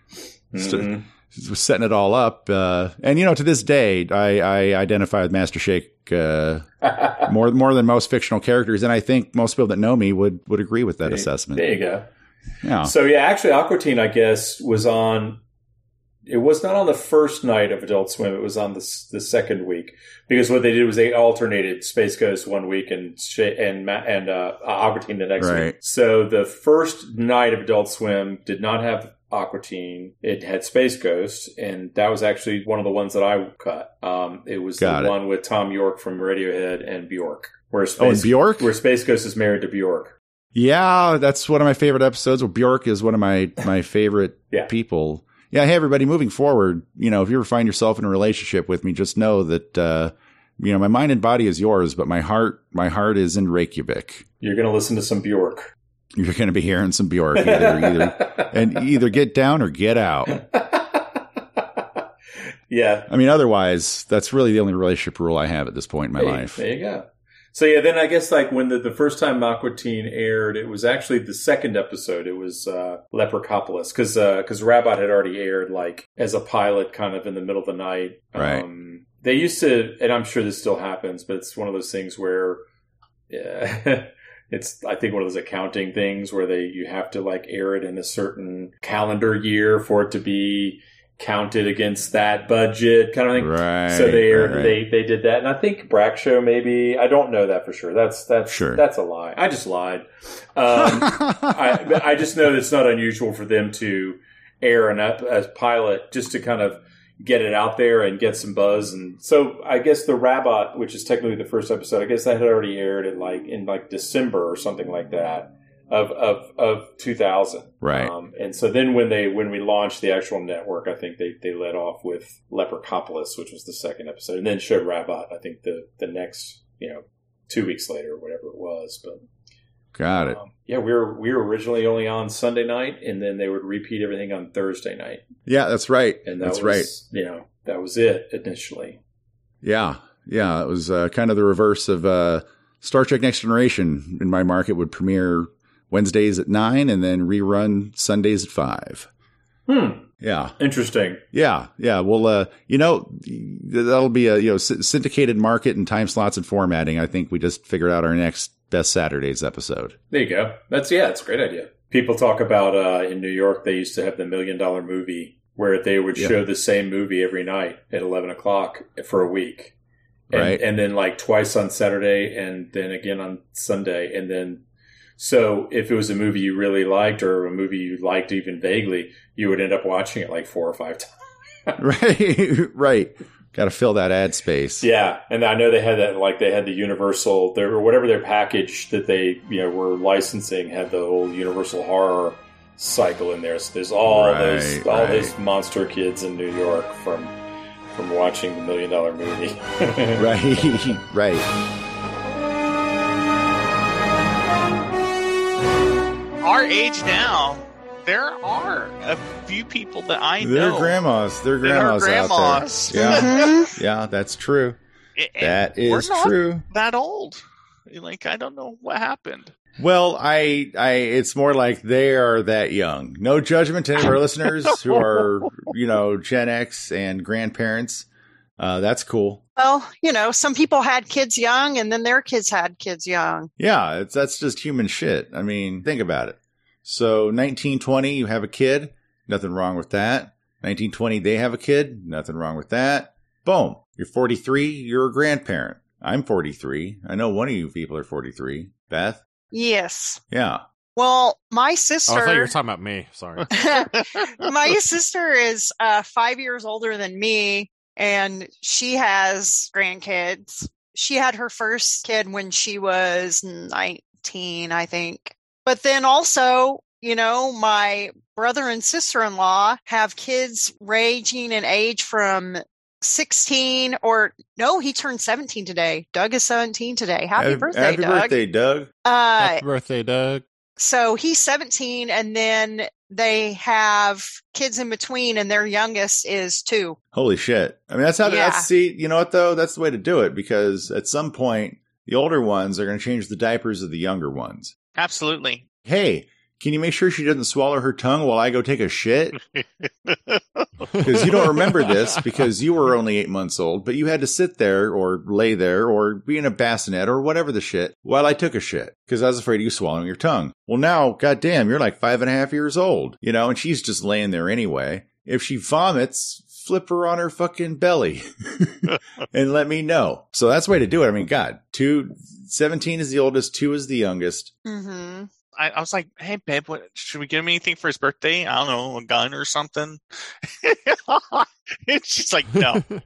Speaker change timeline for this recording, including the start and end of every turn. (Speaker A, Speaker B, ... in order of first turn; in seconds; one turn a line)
Speaker A: 0.5-1.0
Speaker B: 0.6-6.7
Speaker A: 6.8-7.3
Speaker B: 7.2-11.7
Speaker A: 11.1-12.1
Speaker B: 12.6-12.9
Speaker A: 12.8-15.4
Speaker A: 16.2-40.1
Speaker B: 25.4-25.7
Speaker B: 34.8-35.1
Speaker B: 38.0-38.7
Speaker B: 40.5-54.2
Speaker A: 54.4-55.7
Speaker B: 56.1-60.3
Speaker A: 57.4-58.5
Speaker A: 60.3-61.2
Speaker A: 62.7-63.1
Speaker B: 63.1-66.6
Speaker A: 66.2-82.6
Speaker B: 78.3-78.6
Speaker A: 83.3-129.2
Speaker B: 93.3-94.8
Speaker B: 98.5-98.8
Speaker B: 100.8-101.5
Speaker B: 117.8-118.1
Speaker B: 129.9-130.4
Speaker A: 130.2-135.2
Speaker B: 135.4-136.9
Speaker A: 136.2-139.0
Speaker B: 139.6-149.1
Speaker A: 149.7-150.1
Speaker B: 150.2-150.5
Speaker A: 150.6-151.2
Speaker B: 151.3-159.9
Speaker A: 160.1-169.7
Speaker B: 170.3-170.6
Speaker A: 170.3-174.6
Speaker A: 175.2-181.1
Speaker B: 181.8-184.8
Speaker A: 184.8-197.3
Speaker B: 194.1-195.3
Speaker A: 197.9-200.2
Speaker B: 200.2-201.5
Speaker C: 206.4-211.0
Speaker B: 210.4-214.8
Speaker C: 211.6-213.7
Speaker D: 212.9-213.7
Speaker C: 215.2-219.5
Speaker B: 215.4-216.6
Speaker B: 219.8-228.1
Speaker B: 228.6-229.4
Speaker D: 229.6-233.5
Speaker B: 233.6-249.2
Speaker D: 249.5-250.2
Speaker B: 250.3-250.6
Speaker D: 250.9-252.5
Speaker E: 252.1-253.8
Speaker D: 253.5-278.4
Speaker B: 277.4-278.9
Speaker D: 279.0-279.6
Speaker E: 279.4-280.4
Speaker D: 280.8-287.0
Speaker B: 287.1-294.7
Speaker D: 288.2-288.7
Speaker C: 294.9-295.6
Speaker B: 295.8-299.4
Speaker C: 299.5-300.6
Speaker B: 301.0-324.5
Speaker D: 324.6-325.3
Speaker C: 325.6-330.0
Speaker C: 330.6-332.8